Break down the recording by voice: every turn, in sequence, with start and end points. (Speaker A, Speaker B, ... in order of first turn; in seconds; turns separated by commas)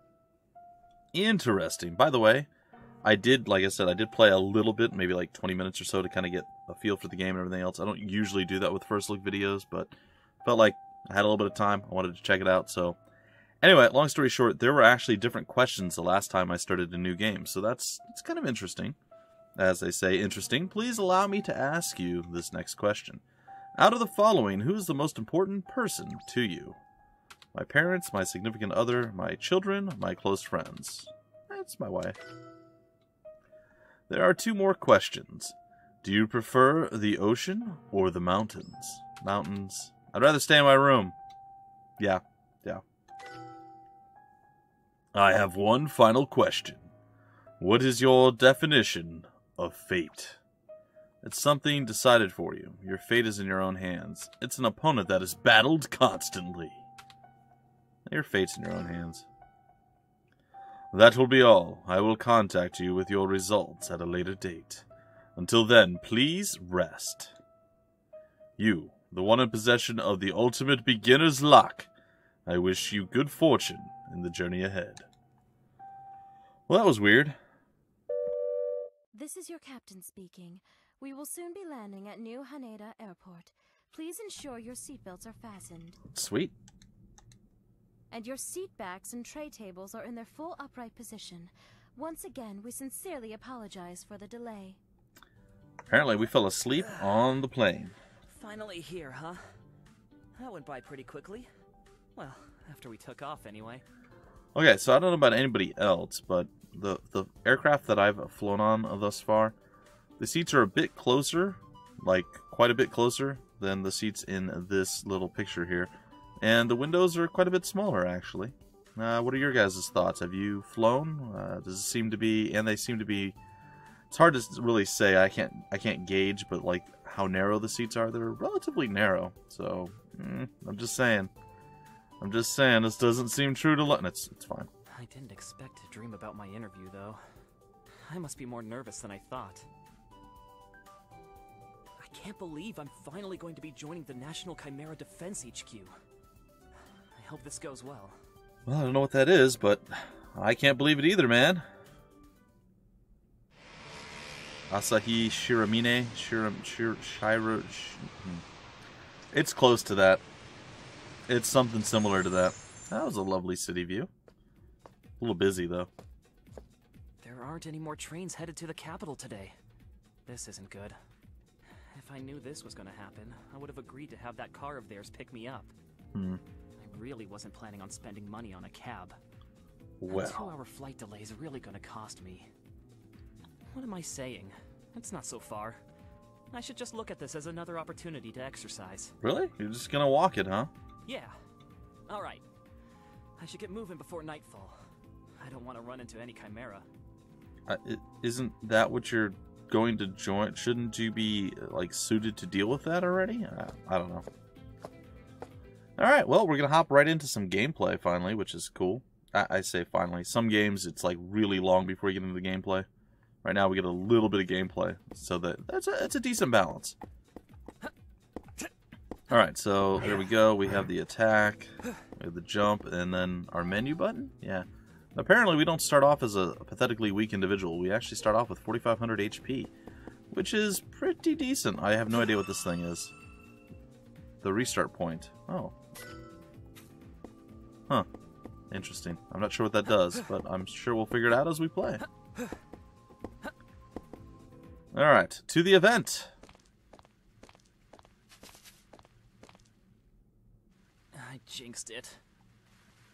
Speaker A: 1.1-2.5, Speaker A: 3.0-13.0, Speaker A: 13.6-19.0, Speaker A: 19.6-23.2, Speaker A: 23.8-26.8, Speaker A: 27.5-32.2, Speaker A: 34.1-41.1, Speaker A: 42.0-42.8, Speaker A: 45.1-46.9, Speaker A: 47.6-50.4, Speaker A: 51.2-56.8, Speaker A: 58.1-59.2, Speaker A: 60.9-67.3, Speaker A: 68.6-71.9, Speaker A: 72.5-75.1, Speaker A: 76.7-77.4, Speaker B: 79.1-86.0, Speaker A: 86.1-86.5, Speaker B: 88.1-94.8, Speaker A: 95.9-97.9, Speaker C: 96.8-97.2, Speaker C: 98.3-99.4, Speaker C: 100.3-101.5, Speaker C: 102.2-103.8, Speaker A: 104.5-109.5, Speaker A: 110.2-123.4, Speaker A: 124.1-131.3, Speaker A: 132.2-134.7, Speaker C: 134.9-137.2, Speaker C: 138.0-139.7, Speaker C: 142.0-145.9, Speaker C: 147.2-148.2, Speaker A: 148.7-151.6, Speaker A: 154.7-158.4, Speaker A: 159.3-160.2, Speaker A: 161.3-164.1, Speaker A: 165.2-165.9, Speaker C: 167.2-169.5, Speaker C: 170.2-170.9, Speaker C: 171.9-175.7, Speaker A: 176.1-176.4, Speaker C: 176.8-179.2, Speaker A: 180.0-180.4, Speaker C: 180.1-182.5, Speaker C: 183.7-185.8, Speaker C: 186.5-189.1, Speaker A: 189.2-190.7, Speaker C: 191.1-191.3, Speaker C: 192.1-192.4, Speaker C: 193.4-194.8, Speaker C: 195.4-196.8, Speaker A: 197.7-204.3, Speaker A: 206.0-212.9, Speaker A: 213.4-217.0, Speaker A: 219.3-229.7, Speaker A: 230.3-233.1, Speaker A: 234.4-235.7, Speaker A: 238.7-242.0, Speaker A: 244.9-246.3, Speaker C: 251.1-252.2